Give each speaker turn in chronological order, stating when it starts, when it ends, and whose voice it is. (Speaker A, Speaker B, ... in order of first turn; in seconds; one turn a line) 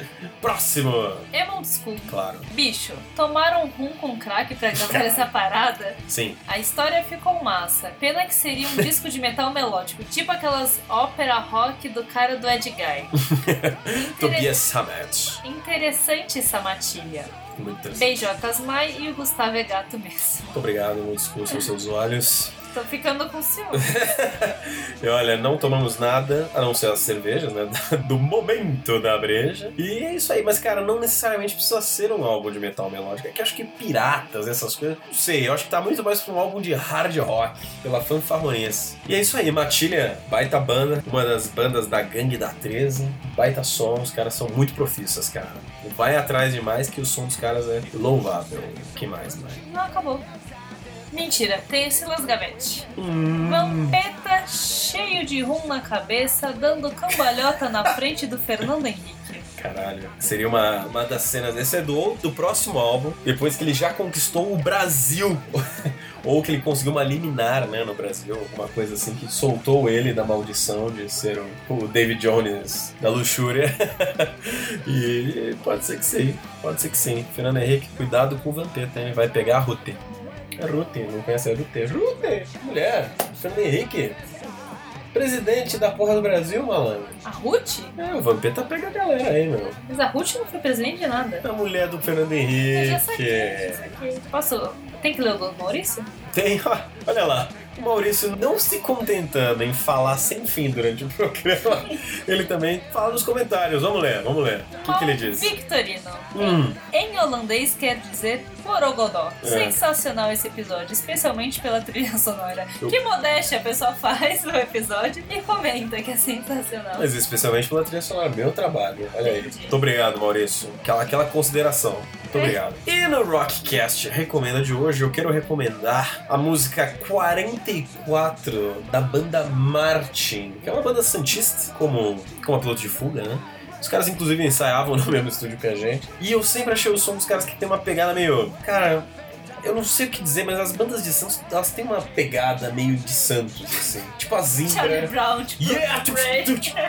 Speaker A: 0.4-1.3
Speaker B: 1.3-13.1
Speaker A: 2.1-2.5
Speaker A: 4.8-5.3
Speaker A: 6.1-6.4
Speaker A: 13.2-15.4
Speaker B: 13.9-14.5
Speaker B: 15.4-17.3
Speaker A: 17.5-18.2
Speaker B: 17.9-20.6
Speaker A: 20.5-22.5
Speaker B: 22.7-23.9
Speaker A: 23.7-49.6
Speaker B: 49.6-50.2
Speaker B: 51.1-59.5
Speaker A: 53.0-54.0
Speaker A: 59.6-65.5
Speaker A: 66.2-80.0
Speaker A: 80.6-84.2
Speaker A: 85.1-87.2
Speaker B: 87.2-88.0
Speaker A: 88.0-89.8
Speaker B: 89.8-91.4
Speaker A: 91.4-93.9
Speaker B: 92.7-96.1
Speaker A: 96.3-105.5
Speaker B: 104.8-117.1
Speaker A: 106.3-106.8
Speaker A: 109.4-109.8
Speaker A: 116.9-139.1
Speaker B: 119.2-119.8
Speaker A: 139.6-146.7
Speaker B: 144.6-146.7